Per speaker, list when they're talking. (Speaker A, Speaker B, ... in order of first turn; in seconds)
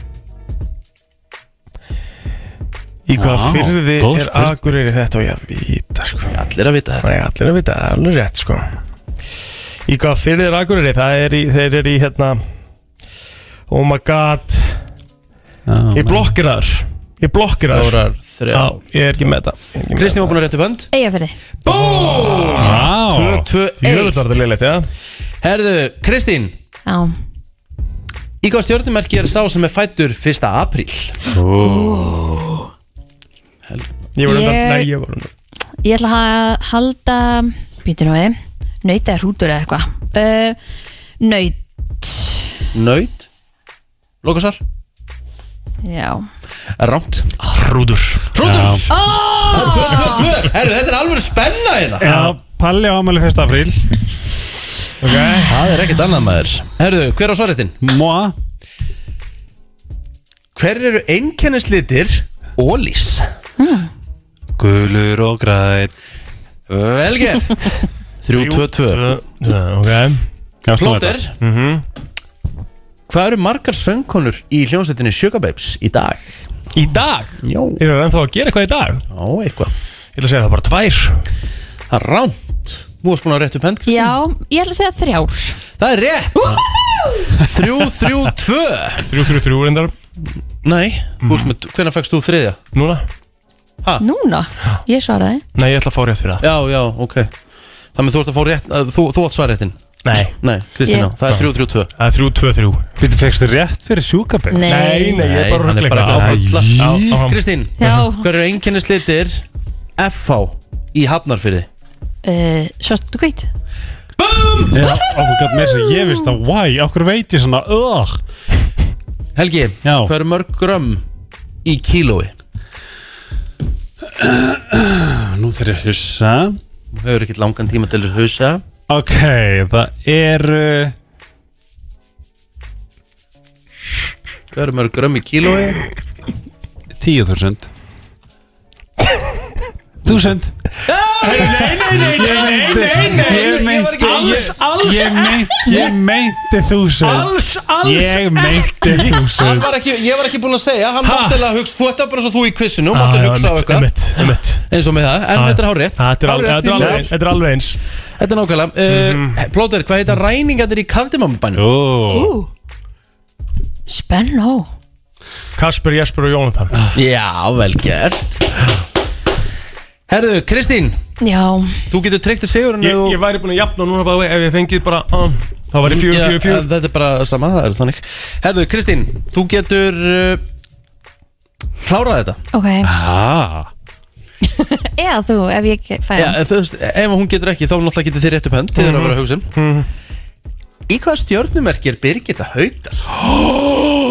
Speaker A: 3.1-6.3, 7.0-8.7, 9.9-12.4, 13.7-14.8, 15.9-18.0, 18.5-20.3, 23.8-24.9, 34.1-35.3, 47.4-48.3, 55.0-55.5, 68.3-70.2, 71.4-71.8, 76.7-79.0, 80.2-81.2, 89.1-89.9, 91.2-91.5, 92.7-93.0, 95.5-96.4, 100.0-100.3, 101.3-102.8, 104.7-108.0, 141.2-145.9, 147.0-149.2, 151.0-151.4, 152.9-154.6, 155.3-157.8, 158.9-159.3, 165.6-166.7, 172.8-176.7, 188.8-189.9
Speaker B: 3.1-4.6, 15.7-16.3, 22.5-23.4, 31.3-32.3, 48.4-48.9, 52.0-53.8, 57.8-58.3, 64.6-65.9, 70.6-71.2, 103.0-104.7, 106.1-107.2, 114.7-118.2, 119.8-120.1, 124.1-126.6, 128.9-130.9, 137.0-137.7, 140.0-140.5, 141.4-149.7, 156.8-157.1, 161.6-162.3, 182.8-183.7
Speaker C: 6.3-7.0, 17.7-18.7, 19.9-20.9, 21.6-24.3, 25.4-26.5, 28.4-31.2, 33.7-33.9, 42.7-43.3, 44.2-44.6, 46.8-47.3, 48.3-52.1, 55.4-57.8, 60.5-63.2, 66.7-69.0, 70.7-71.3, 73.1-76.5, 77.4-77.8, 79.1-79.7, 81.9-84.2, 85.8-86.6, 87.4-89.2, 90.6-92.6, 96.4-97.3, 97.9-99.8, 100.4-101.9, 105.2-109.4, 110.0-111.7, 114.2-115.0, 119.3-121.0, 121.6-122.3, 126.9-128.6, 134.5-135.8, 140.8-141.8, 143.0-144.4, 149.3-157.1, 158.2-161.6, 166.9-168.4, 170.1-171.0, 171.9-173.2, 175.8-180.4, 181.8-182.4, 186.2-189.5, 190.9-193.0
Speaker D: 20.9-21.4, 26.9-27.1, 31.6-32.6, 34.3-34.9, 35.8-40.6, 41.2-42.5, 45.8-46.2, 48.9-50.3, 63.6-63.9, 83.8-85.6, 86.3-87.3, 94.0-95.4, 104.5-105.2, 107.8-108.2, 112.2-113.5, 115.4-116.2, 162.1-162.5, 163.9-164.7, 171.2-171.8, 182.5-182.9, 184.5-186.4